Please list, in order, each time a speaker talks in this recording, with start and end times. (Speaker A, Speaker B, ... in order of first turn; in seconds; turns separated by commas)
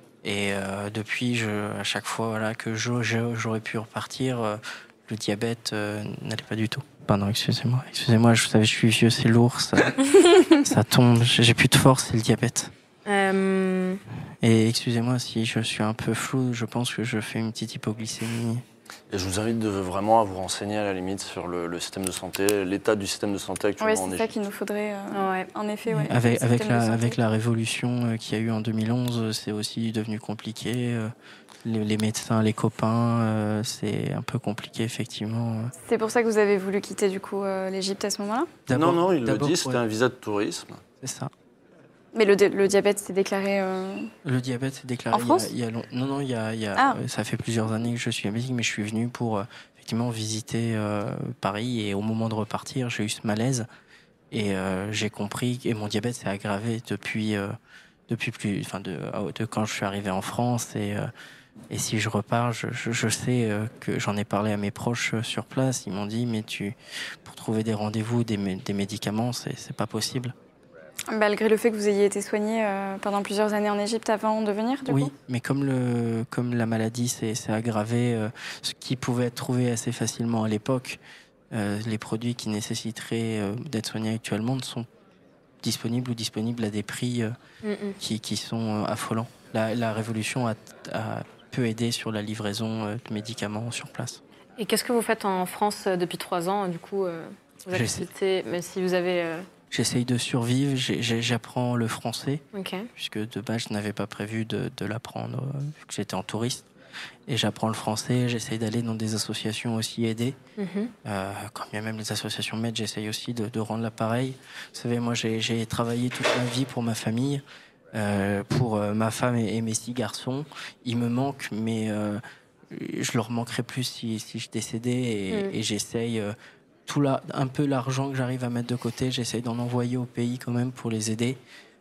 Speaker A: 0.2-10.1, Speaker A: 10.6-12.7, Speaker B: 13.1-14.0, Speaker A: 14.4-18.6, Speaker C: 19.1-24.3, Speaker D: 23.8-27.2, Speaker B: 25.1-25.5, Speaker A: 25.9-31.1, Speaker A: 31.6-35.7, Speaker D: 35.8-38.6, Speaker A: 38.7-39.8, Speaker C: 38.7-40.8, Speaker A: 41.0-41.3, Speaker D: 42.1-44.1, Speaker A: 44.2-53.7, Speaker D: 45.1-45.5, Speaker A: 54.3-57.6, Speaker A: 58.1-61.1, Speaker A: 61.7-70.3, Speaker D: 71.1-75.1, Speaker A: 74.9-81.0, Speaker A: 81.5-84.9, Speaker A: 85.6-87.3, Speaker B: 87.6-88.0, Speaker A: 88.0-94.2, Speaker B: 94.6-99.5, Speaker A: 97.7-98.1, Speaker A: 99.7-102.4, Speaker B: 102.5-102.9, Speaker A: 103.0-106.7, Speaker A: 107.3-110.4, Speaker B: 110.6-110.9, Speaker A: 111.0-126.3, Speaker A: 126.9-131.4